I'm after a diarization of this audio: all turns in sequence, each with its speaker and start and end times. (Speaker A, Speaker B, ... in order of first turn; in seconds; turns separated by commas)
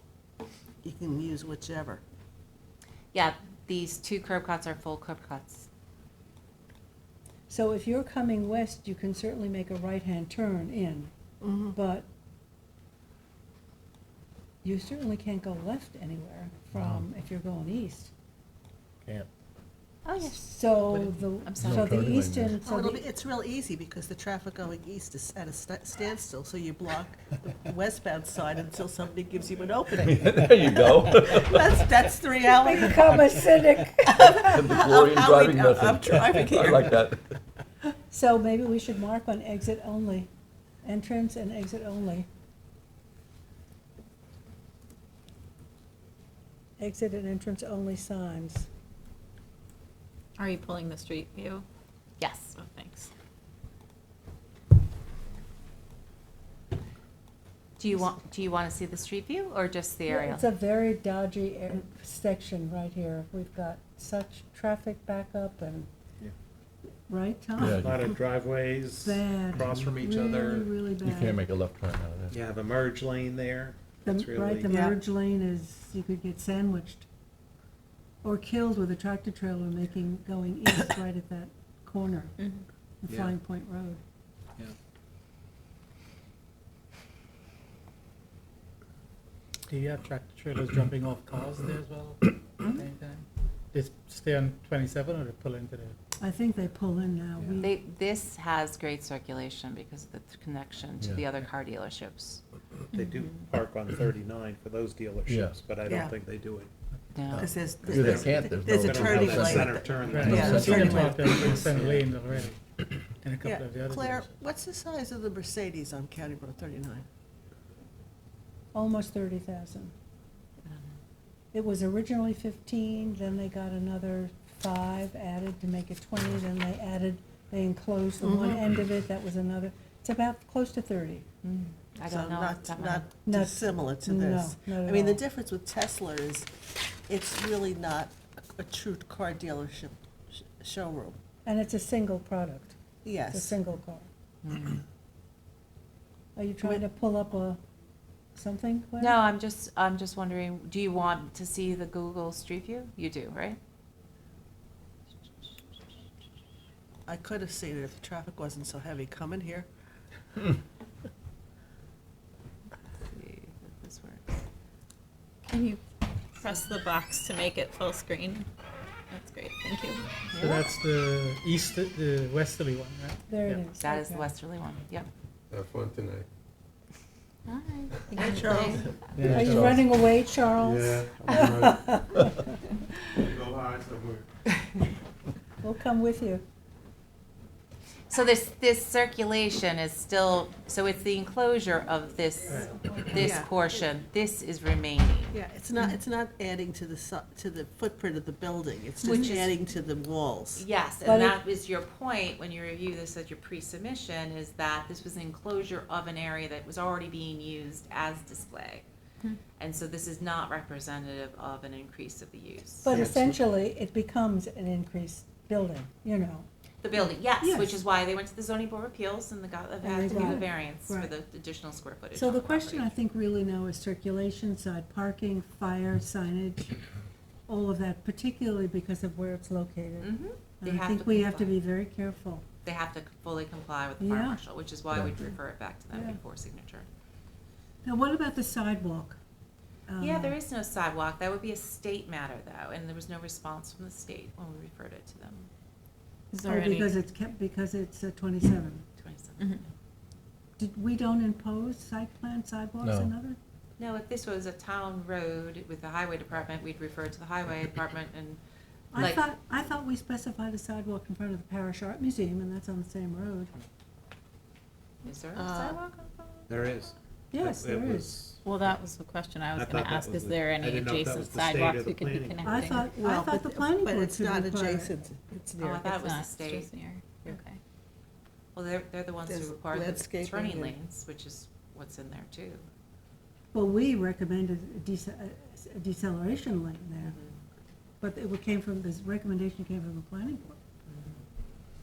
Speaker A: 0.8-2.0, Speaker B: 3.1-5.7, Speaker C: 7.5-11.1, Speaker A: 11.4-11.8, Speaker C: 11.7-12.1, Speaker C: 14.6-18.1, Speaker B: 20.1-20.4, Speaker C: 20.2-23.1, Speaker B: 20.9-22.1, Speaker D: 21.6-22.6, Speaker A: 22.6-33.1, Speaker D: 30.1-31.8, Speaker C: 32.6-34.5, Speaker A: 34.1-37.1, Speaker D: 34.2-37.2, Speaker C: 38.1-40.3, Speaker C: 40.8-42.3, Speaker C: 46.8-48.7, Speaker E: 50.4-51.6, Speaker B: 52.2-52.5, Speaker E: 52.5-53.1, Speaker B: 57.8-60.5, Speaker C: 60.1-65.9, Speaker C: 67.1-67.9, Speaker F: 67.6-70.6, Speaker D: 67.6-68.0, Speaker C: 69.0-71.4, Speaker D: 71.0-72.4, Speaker F: 72.3-74.9, Speaker C: 74.0-77.0, Speaker A: 74.7-75.0, Speaker C: 78.2-82.3, Speaker C: 83.0-84.0, Speaker G: 89.7-96.0, Speaker C: 96.2-97.7, Speaker B: 97.6-102.4, Speaker F: 102.9-106.7, Speaker B: 103.2-103.4, Speaker D: 105.3-105.5, Speaker A: 105.8-106.1, Speaker B: 107.1-107.5, Speaker D: 107.3-109.8, Speaker A: 107.3-111.8, Speaker F: 107.9-112.5, Speaker G: 110.0-112.6, Speaker D: 110.3-111.0, Speaker G: 113.2-114.4, Speaker A: 113.4-117.0, Speaker C: 118.7-119.9, Speaker C: 121.5-131.2, Speaker A: 128.2-128.7, Speaker B: 131.4-133.1, Speaker A: 132.1-136.5, Speaker C: 133.2-135.2, Speaker A: 137.1-141.2, Speaker C: 141.4-142.8, Speaker A: 143.0-143.6, Speaker C: 143.3-144.1, Speaker B: 144.4-144.8, Speaker C: 146.3-147.6, Speaker C: 148.3-149.2, Speaker B: 149.0-153.6, Speaker A: 157.1-159.7, Speaker B: 162.9-164.4, Speaker E: 165.4-165.8, Speaker E: 166.3-168.5, Speaker E: 169.1-170.1, Speaker B: 170.3-170.6, Speaker G: 170.3-173.6, Speaker C: 173.3-174.3, Speaker B: 173.8-175.1, Speaker H: 175.5-176.2, Speaker E: 177.5-178.6, Speaker B: 178.2-178.9, Speaker A: 178.2-178.8, Speaker G: 179.1-179.9, Speaker C: 179.2-182.4, Speaker H: 180.6-181.8, Speaker F: 181.2-181.5, Speaker F: 183.4-184.2, Speaker C: 185.6-186.4, Speaker B: 188.1-195.3, Speaker G: 192.5-192.7, Speaker A: 193.1-193.7, Speaker A: 195.3-200.6, Speaker B: 199.0-199.5, Speaker B: 200.5-208.8, Speaker C: 201.0-201.4, Speaker B: 209.6-213.0, Speaker C: 212.8-216.5, Speaker F: 212.9-213.3, Speaker B: 216.8-222.9, Speaker C: 217.4-217.8, Speaker C: 219.8-221.1, Speaker C: 222.1-226.8, Speaker C: 227.5-232.4, Speaker B: 230.0-231.5, Speaker B: 232.6-236.9, Speaker C: 234.0-234.4, Speaker C: 235.9-236.2, Speaker C: 237.8-239.2, Speaker C: 239.9-240.4, Speaker B: 240.0-245.5, Speaker E: 246.3-247.0, Speaker C: 246.4-248.8, Speaker B: 249.0-249.7, Speaker C: 250.6-253.4, Speaker D: 252.8-253.1, Speaker B: 253.8-258.4, Speaker C: 258.9-263.5, Speaker B: 258.9-259.3, Speaker B: 265.0-266.5, Speaker A: 265.4-265.8, Speaker F: 266.5-268.4, Speaker C: 267.3-268.2, Speaker E: 268.4-272.9, Speaker F: 269.5-272.7, Speaker C: 272.4-275.0, Speaker A: 272.9-275.9, Speaker B: 275.6-276.7, Speaker E: 275.6-277.6, Speaker B: 278.5-282.6, Speaker A: 279.3-280.7, Speaker C: 283.5-287.2, Speaker B: 287.0-287.4, Speaker C: 288.0-290.6, Speaker B: 290.9-291.2